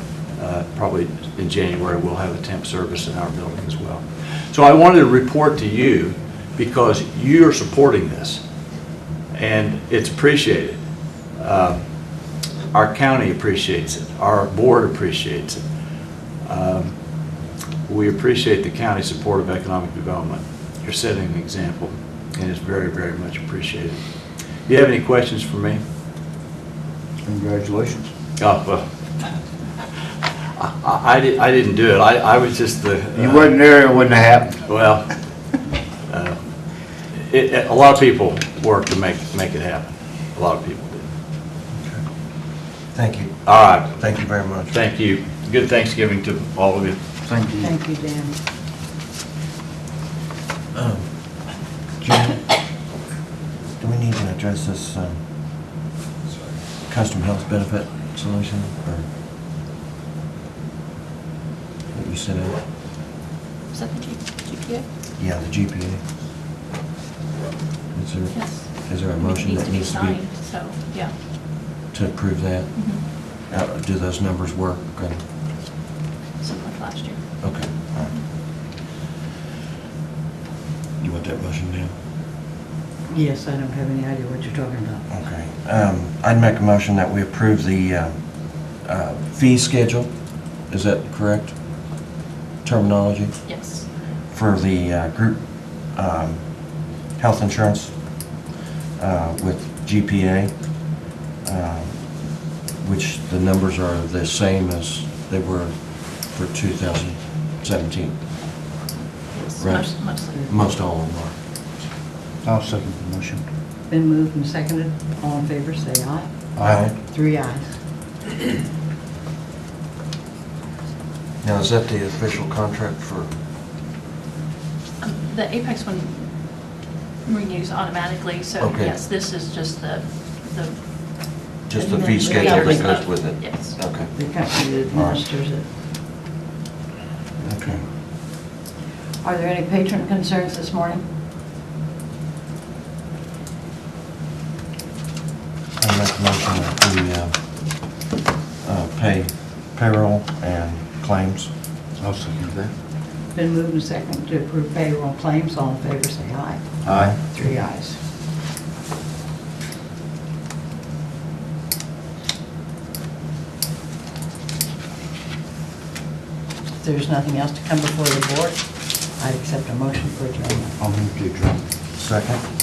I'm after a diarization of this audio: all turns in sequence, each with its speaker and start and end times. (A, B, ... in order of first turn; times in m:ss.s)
0:00.3-0:08.4 A
0:09.3-0:12.1 A
0:12.7-0:15.6 A
0:16.4-0:17.3 A
0:17.9-0:24.0 A
0:24.6-0:25.8 A
0:27.2-0:28.1 B
0:28.4-0:28.8 A
0:30.6-0:33.6 A
0:33.2-0:34.6 B
0:34.6-0:35.1 A
0:36.1-0:36.4 A
0:37.1-0:41.1 A
0:41.8-0:42.0 C
0:42.9-0:44.7 C
0:43.4-0:43.9 A
0:44.7-0:47.0 A
0:47.3-0:47.7 B
0:47.6-0:48.4 D
0:50.8-0:51.1 C
0:52.0-0:52.5 C
0:53.8-0:55.2 C
0:56.8-0:59.1 C
1:01.9-1:02.6 C
1:03.7-1:04.8 E
1:05.2-1:06.0 C
1:07.9-1:10.2 C
1:08.3-1:11.1 E
1:11.9-1:15.2 C
1:12.8-1:13.0 E
1:16.4-1:17.8 E
1:17.4-1:18.2 C
1:21.0-1:21.9 C
1:23.1-1:25.1 D
1:25.1-1:31.8 C
1:32.6-1:38.4 C
1:33.5-1:33.9 E
1:39.0-1:48.2 C
1:49.3-1:50.4 E
1:49.6-1:51.4 C
1:50.3-1:50.6 D
1:52.4-1:53.4 B
1:53.9-1:57.8 D
1:56.6-1:57.0 B
1:56.6-1:57.0 C
2:01.4-2:03.3 C
2:05.0-2:13.8 E
2:08.6-2:09.0 C
2:11.7-2:15.2 C
2:12.1-2:12.9 D
2:14.1-2:15.7 D
2:17.4-2:17.8 C
2:19.2-2:21.1 D
2:25.8-2:28.0 C
2:28.6-2:31.5 C
2:32.0-2:32.7 B
2:33.3-2:38.0 D
2:36.8-2:37.2 B
2:36.9-2:37.2 C
2:46.8-2:50.8 D
2:50.8-2:51.7 B
2:52.0-2:52.4 C